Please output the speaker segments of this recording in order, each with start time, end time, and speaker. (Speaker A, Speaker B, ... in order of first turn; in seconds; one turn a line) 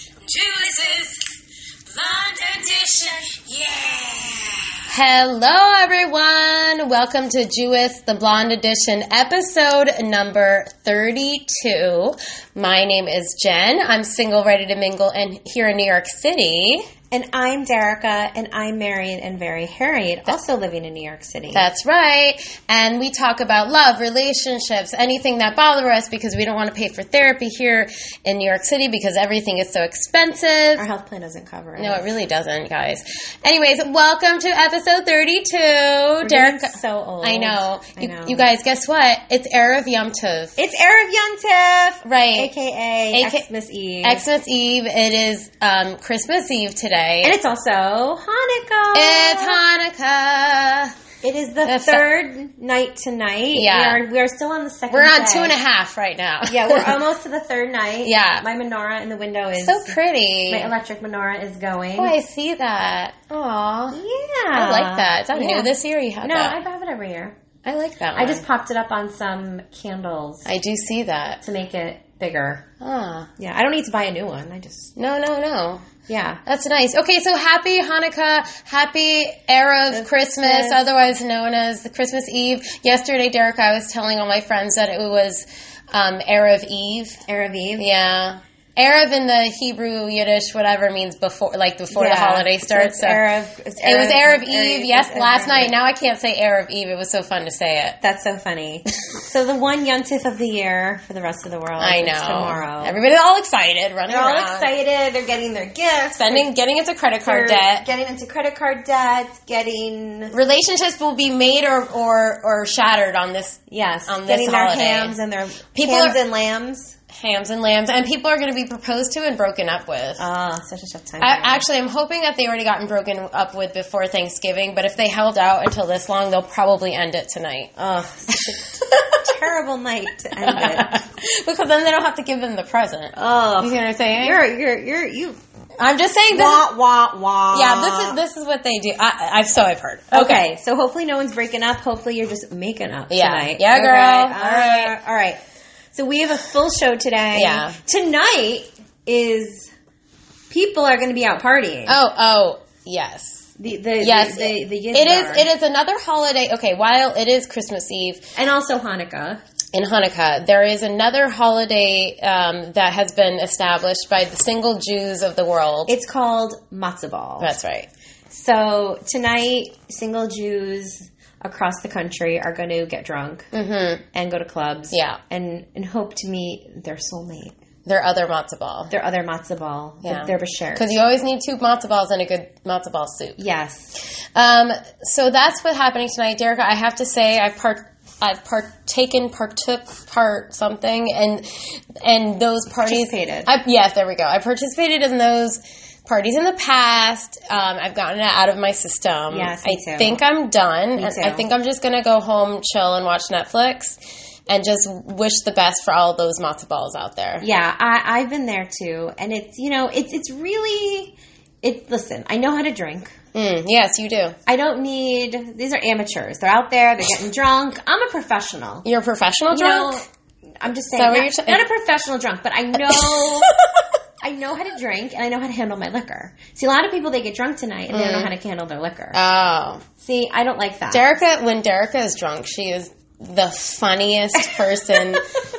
Speaker A: 0.2-1.2
Speaker A: 1.9-16.9
Speaker B: 17.1-21.7
Speaker A: 21.5-30.8
Speaker B: 30.8-32.1
Speaker A: 31.8-40.6
Speaker B: 36.2-38.5
Speaker B: 40.6-44.2
Speaker A: 42.0-42.5
Speaker A: 43.1-43.5
Speaker A: 44.0-47.4
Speaker B: 47.2-49.6
Speaker A: 48.9-50.9
Speaker B: 51.2-55.6
Speaker A: 51.6-52.0
Speaker A: 53.5-54.0
Speaker A: 54.9-57.0
Speaker B: 56.5-60.0
Speaker A: 58.0-58.5
Speaker A: 59.6-60.7
Speaker B: 60.5-62.1
Speaker A: 62.0-64.0
Speaker B: 63.9-65.7
Speaker A: 64.5-66.6
Speaker B: 66.2-67.4
Speaker A: 67.6-68.4
Speaker B: 68.2-70.5
Speaker A: 70.5-71.4
Speaker B: 71.4-72.7
Speaker A: 72.8-73.3
Speaker B: 73.4-74.9
Speaker A: 75.0-75.9
Speaker B: 76.1-76.4
Speaker A: 76.5-87.2
Speaker B: 79.9-80.8
Speaker B: 87.3-87.9
Speaker A: 87.8-93.2
Speaker B: 91.9-95.8
Speaker A: 93.8-98.0
Speaker B: 98.0-103.0
Speaker A: 101.8-104.7
Speaker B: 104.1-106.5
Speaker A: 106.1-107.9
Speaker B: 107.2-110.3
Speaker A: 110.3-115.2
Speaker B: 113.7-117.0
Speaker A: 115.8-116.2
Speaker A: 117.1-120.2
Speaker B: 120.2-121.6
Speaker A: 121.2-127.7
Speaker B: 127.8-131.0
Speaker A: 128.5-129.3
Speaker A: 130.4-134.4
Speaker B: 133.1-135.4
Speaker A: 135.8-136.7
Speaker B: 136.3-138.2
Speaker A: 137.5-140.4
Speaker B: 140.1-145.4
Speaker A: 143.1-145.0
Speaker B: 145.9-149.7
Speaker A: 147.3-147.8
Speaker B: 150.5-152.0
Speaker A: 151.9-158.3
Speaker B: 153.6-155.5
Speaker B: 158.4-159.4
Speaker A: 159.7-165.9
Speaker B: 165.9-167.6
Speaker A: 167.4-167.9
Speaker B: 168.3-173.5
Speaker A: 173.5-174.0
Speaker B: 174.1-177.6
Speaker A: 174.9-175.2
Speaker A: 177.9-178.9
Speaker B: 178.9-181.0
Speaker A: 180.0-183.4
Speaker B: 183.4-184.0
Speaker A: 184.0-207.5
Speaker B: 192.9-193.5
Speaker B: 199.3-200.2
Speaker B: 201.0-201.4
Speaker B: 207.4-213.1
Speaker A: 213.3-214.4
Speaker B: 214.5-218.9
Speaker A: 218.8-220.0
Speaker B: 219.5-220.0
Speaker B: 220.6-223.6
Speaker A: 221.0-221.6
Speaker A: 222.9-223.8
Speaker B: 224.2-229.2
Speaker A: 227.9-228.3
Speaker A: 229.1-229.8
Speaker B: 230.0-231.2
Speaker A: 230.9-235.3